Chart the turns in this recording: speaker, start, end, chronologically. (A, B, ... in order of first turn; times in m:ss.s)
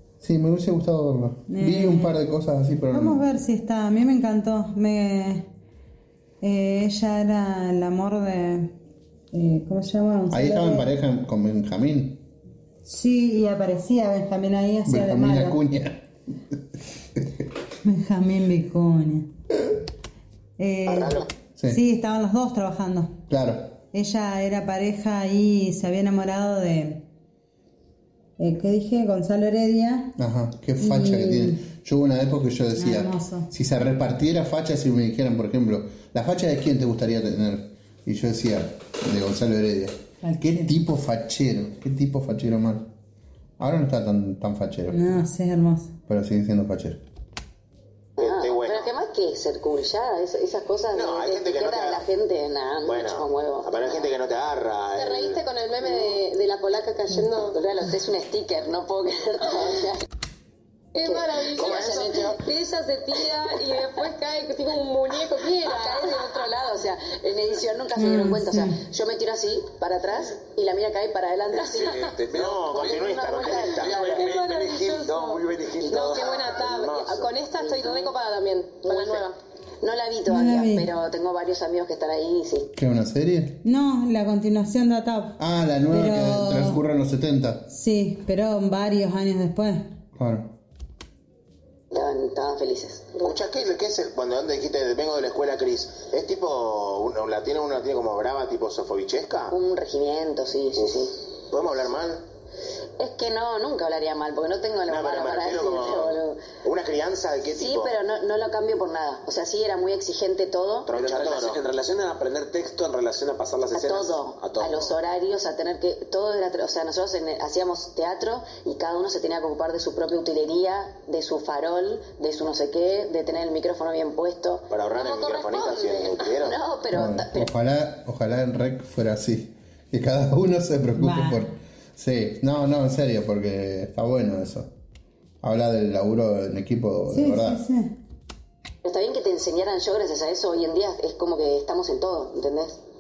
0:00.2-0:03.2 A
0:01.5-0:02.2 B
0:02.9-0:05.5 B
0:06.4-0:08.7 B
0:09.3-0:10.9 B
0:10.3-0:12.2 A
0:12.8-0:15.6 B
0:14.9-0:16.0 A
0:17.8-0:19.3 B
0:20.6-0:23.2 B
0:20.9-0:21.3 C
0:23.3-0:23.7 A
0:23.9-0:27.0 B
0:28.4-0:30.1 B
0:30.2-0:42.9 A
0:30.8-0:31.6 B
0:32.8-0:33.5 B
0:40.2-0:40.7 B
0:43.6-0:45.1 A
0:44.9-0:45.9 B
0:46.1-0:47.0 A
0:48.2-0:54.1 D
0:48.2-0:48.9 C
0:50.9-0:52.0 C
0:52.8-0:55.4 C
0:55.0-0:57.6 E
0:57.5-1:00.0 D
1:00.9-1:06.4 E
1:01.0-1:02.4 D
1:01.6-1:02.4 C
1:05.6-1:12.2 D
1:08.0-1:08.8 B
1:11.5-1:17.3 F
1:12.3-1:14.0 C
1:12.7-1:13.8 D
1:13.4-1:19.4 E
1:17.6-1:18.1 D
1:18.8-1:19.2 D
1:19.8-1:22.7 D
1:20.3-1:20.9 B
1:22.8-1:23.6 A
1:23.6-1:25.4 B
1:25.4-1:27.7 A
1:25.9-1:26.8 B
1:27.7-1:29.9 B
1:30.2-1:30.5 A
1:31.9-1:33.2 D
1:33.2-1:39.6 C
1:39.5-1:41.2 D
1:41.5-1:42.2 C
1:43.0-1:46.4 D
1:44.9-1:47.9 C
1:47.5-1:50.9 D
1:50.9-1:51.6 C
1:50.9-1:54.9 F
1:53.7-2:04.7 D
2:04.7-2:06.6 C
2:04.9-2:06.3 E
2:06.4-2:07.5 D
2:06.9-2:14.7 A
2:11.0-2:11.4 B
2:15.4-2:17.6 A
2:17.1-2:18.0 B
2:18.8-2:22.8 D